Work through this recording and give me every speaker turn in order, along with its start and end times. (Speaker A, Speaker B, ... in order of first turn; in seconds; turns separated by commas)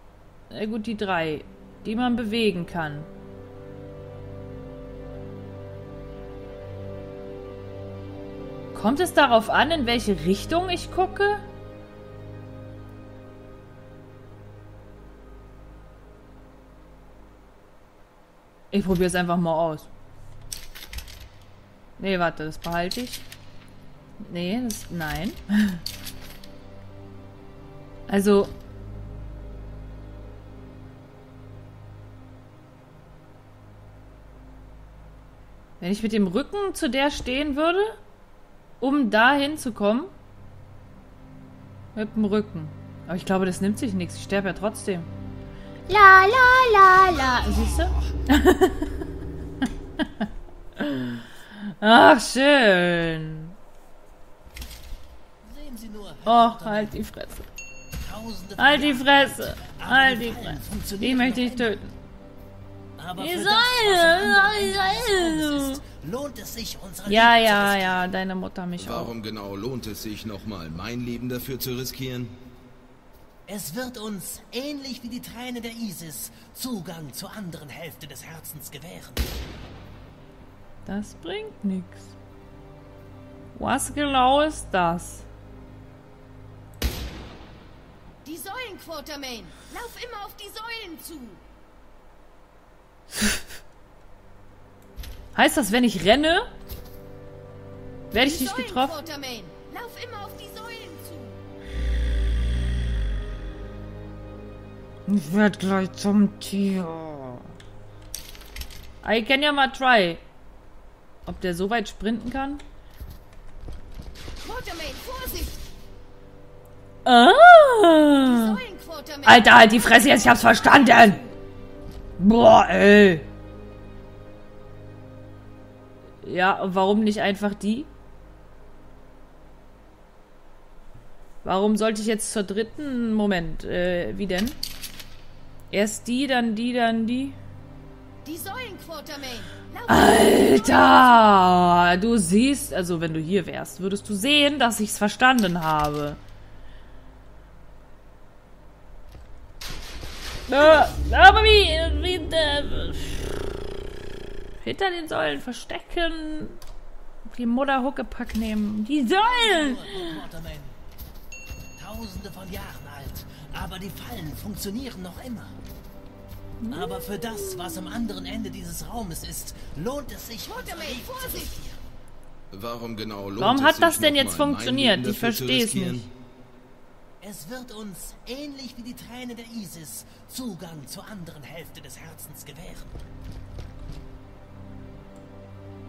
Speaker A: 0.5-3.1, Speaker A: 8.7-11.4, Speaker A: 18.7-19.9, Speaker A: 22.0-23.2, Speaker A: 24.2-25.8, Speaker A: 28.1-28.5, Speaker A: 35.8-38.0, Speaker A: 38.8-40.1, Speaker A: 41.9-45.1, Speaker A: 45.9-49.1, Speaker A: 49.6-53.5, Speaker B: 55.4-57.0, Speaker A: 56.2-57.5, Speaker B: 58.0-61.7, Speaker A: 58.6-61.9, Speaker B: 63.0-68.1, Speaker A: 63.2-65.8, Speaker A: 67.0-69.1, Speaker C: 68.8-72.4, Speaker B: 73.5-79.4, Speaker A: 80.8-82.1, Speaker A: 83.5-85.2, Speaker D: 88.2-91.4, Speaker A: 93.1-93.5, Speaker A: 95.3-96.5, Speaker A: 98.1-99.0, Speaker D: 98.1-101.4, Speaker A: 105.1-107.5, Speaker A: 109.0-110.2, Speaker A: 111.2-112.6, Speaker D: 114.4-115.6, Speaker A: 117.0-118.6, Speaker D: 118.2-121.4, Speaker A: 119.2-121.2, Speaker A: 122.2-123.2, Speaker A: 126.2-127.9, Speaker A: 131.4-134.6, Speaker A: 135.7-137.4, Speaker D: 138.2-141.3, Speaker A: 139.9-146.2, Speaker A: 150.5-153.7, Speaker A: 154.6-156.6, Speaker A: 157.2-160.2, Speaker B: 159.2-160.8, Speaker B: 161.8-165.6, Speaker A: 166.6-168.0, Speaker B: 166.7-171.8, Speaker D: 170.4-171.6, Speaker C: 172.5-176.1, Speaker A: 173.4-176.1, Speaker B: 177.2-183.0